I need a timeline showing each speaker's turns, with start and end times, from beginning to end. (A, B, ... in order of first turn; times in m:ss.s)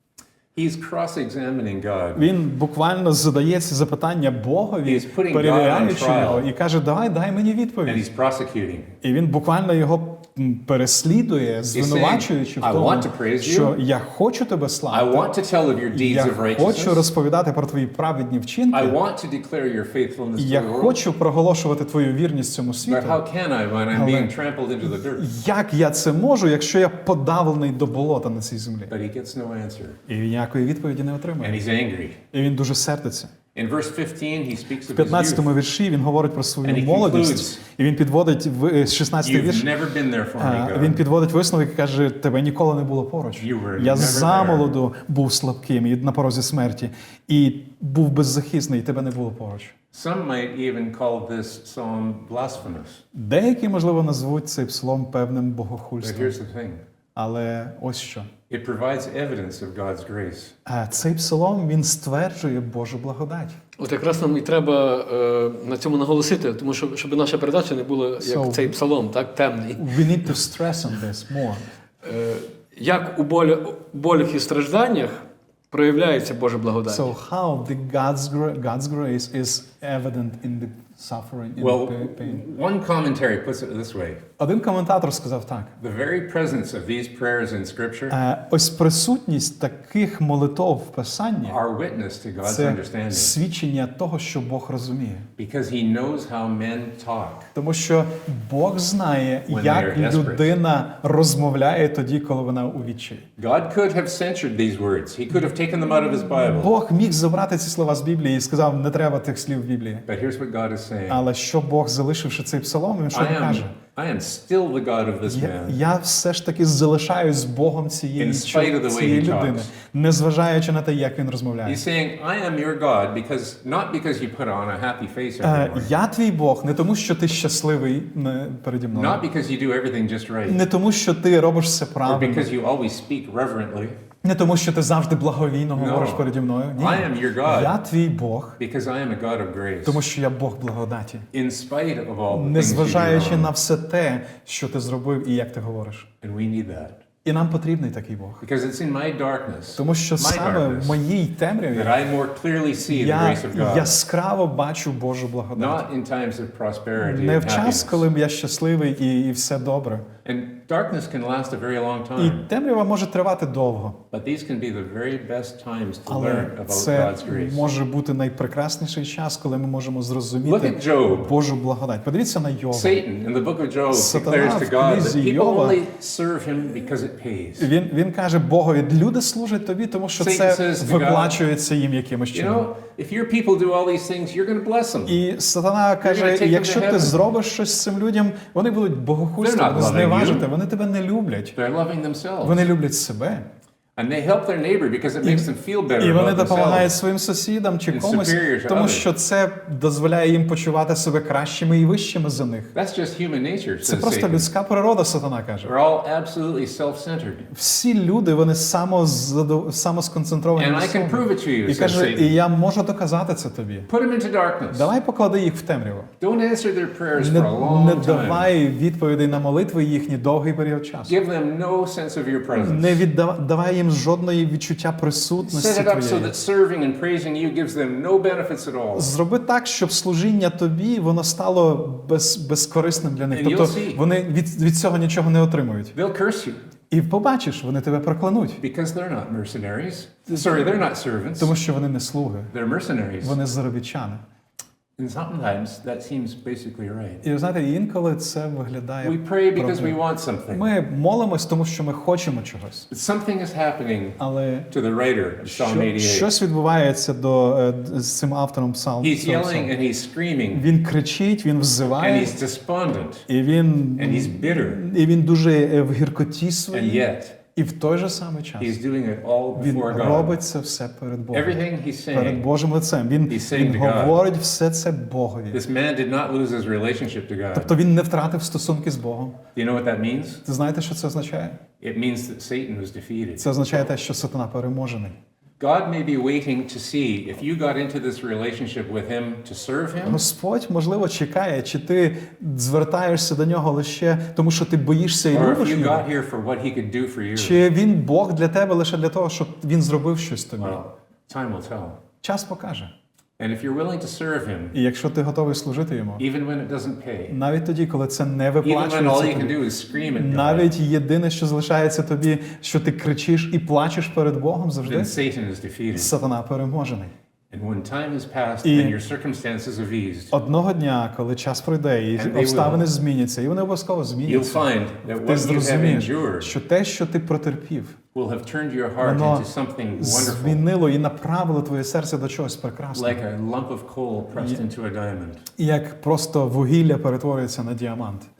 0:00.5-0:02.3 A
0:02.1-0:08.0 B
0:04.8-0:06.5 A
0:07.8-0:08.9 A
0:09.0-0:15.2 B
0:11.7-0:13.8 A
0:14.9-0:17.1 A
0:15.9-0:19.0 B
0:18.7-0:21.0 A
0:20.4-0:23.2 B
0:22.8-0:25.3 A
0:23.9-0:24.3 B
0:25.1-0:28.9 B
0:28.9-0:30.0 A
0:30.1-0:31.6 B
0:31.4-0:32.2 A
0:32.3-0:33.3 B
0:33.5-0:35.5 A
0:34.9-0:39.7 B
0:36.6-0:37.6 A
0:39.2-0:41.0 A
0:40.4-0:49.7 B
0:43.4-0:44.8 A
0:49.9-0:53.0 A
0:53.1-0:56.4 B
0:56.0-0:56.8 A
0:57.1-0:58.3 B
0:58.5-1:00.5 A
1:00.6-1:03.6 B
1:03.8-1:09.9 C
1:08.2-1:08.7 B
1:09.8-1:11.6 B
1:12.0-1:17.1 C
1:16.9-1:22.4 B
1:21.6-1:24.2 A
1:24.4-1:25.8 B
1:25.8-1:28.2 A
1:28.1-1:31.6 B
1:31.4-1:33.4 A
1:32.4-1:35.3 B
1:35.4-1:37.5 A
1:37.5-1:43.2 B
1:39.5-1:40.6 A
1:43.4-1:46.7 A
1:46.5-1:50.0 B
1:50.0-1:51.2 A
1:51.1-1:53.7 B
1:53.1-1:55.8 A
1:55.2-2:01.8 B
1:58.2-1:59.7 A
2:01.6-2:05.9 A
2:05.4-2:09.2 B
2:08.9-2:10.6 A
2:10.4-2:12.5 B
2:12.0-2:14.0 A
2:14.2-2:18.6 B
2:15.7-2:17.8 A
2:18.6-2:20.0 A
2:19.8-2:21.3 B
2:21.3-2:23.5 A
2:22.3-2:26.1 B
2:26.2-2:27.0 A
2:27.2-2:28.4 B
2:28.4-2:31.0 A
2:29.7-2:32.0 B
2:31.7-2:34.0 A
2:32.9-2:35.8 B
2:35.5-2:38.0 A
2:37.0-2:40.0 B
2:40.2-2:42.4 A
2:42.2-2:44.0 B
2:44.1-2:47.7 A
2:46.0-2:53.0 B
2:50.4-2:51.3 A
2:52.7-2:57.7 A
2:53.9-2:55.8 B
2:57.6-3:02.7 B
3:00.2-3:01.4 A
3:02.3-3:05.2 A
3:05.0-3:11.6 B
3:06.0-3:07.2 A
3:09.4-3:10.5 A
3:11.5-3:12.7 A
3:12.4-3:13.4 B
3:14.0-3:17.0 A
3:16.0-3:22.7 B
3:17.9-3:19.1 A
3:22.7-3:24.5 A
3:23.8-3:25.7 B
3:25.6-3:27.5 A
3:27.5-3:33.9 B
3:30.6-3:32.4 A
3:33.9-3:34.9 A
3:34.7-3:36.1 B
3:36.2-3:38.5 A
3:37.2-3:41.2 B
3:41.1-3:43.0 A
3:42.5-3:46.4 B
3:45.4-3:49.1 A
3:48.9-3:55.9 B
3:53.3-3:54.0 A
3:55.9-3:56.6 A
3:56.9-3:58.6 B
3:58.6-4:01.5 A
4:01.4-4:02.5 B
4:02.5-4:03.4 A
4:03.2-4:04.2 B
4:05.0-4:07.2 A
4:07.2-4:10.0 B
4:09.0-4:10.7 A
4:10.5-4:12.9 B
4:12.9-4:16.3 A
4:14.2-4:14.7 B
4:15.4-4:19.7 B
4:19.0-4:20.6 A
4:20.5-4:22.4 B
4:22.0-4:23.3 A
4:23.3-4:28.8 B
4:24.0-4:24.8 A
4:26.7-4:27.4 A
4:28.6-4:30.4 A
4:29.6-4:31.6 B
4:31.3-4:32.5 A
4:32.1-4:35.6 B
4:33.3-4:34.2 A
4:35.5-4:37.7 A
4:37.5-4:39.4 B
4:39.5-4:40.4 A
4:40.4-4:41.6 B
4:41.8-4:43.6 A
4:43.4-4:45.2 B
4:45.6-4:50.2 A
4:50.0-4:56.1 B
4:55.3-4:57.6 A
4:57.3-5:00.8 B
5:00.6-5:02.0 A
5:02.2-5:02.9 B
5:03.4-5:04.8 A
5:04.7-5:06.2 B
5:06.2-5:07.4 A
5:07.3-5:09.6 B
5:08.6-5:10.7 A
5:10.1-5:15.2 B
5:14.8-5:16.1 A
5:15.9-5:17.1 B
5:17.5-5:20.3 A
5:18.6-5:19.0 B
5:20.3-5:28.0 B
5:22.2-5:22.9 A
5:24.2-5:26.5 A
5:28.1-5:30.6 A
5:29.0-5:33.2 B
5:32.9-5:35.4 A
5:35.6-5:38.3 B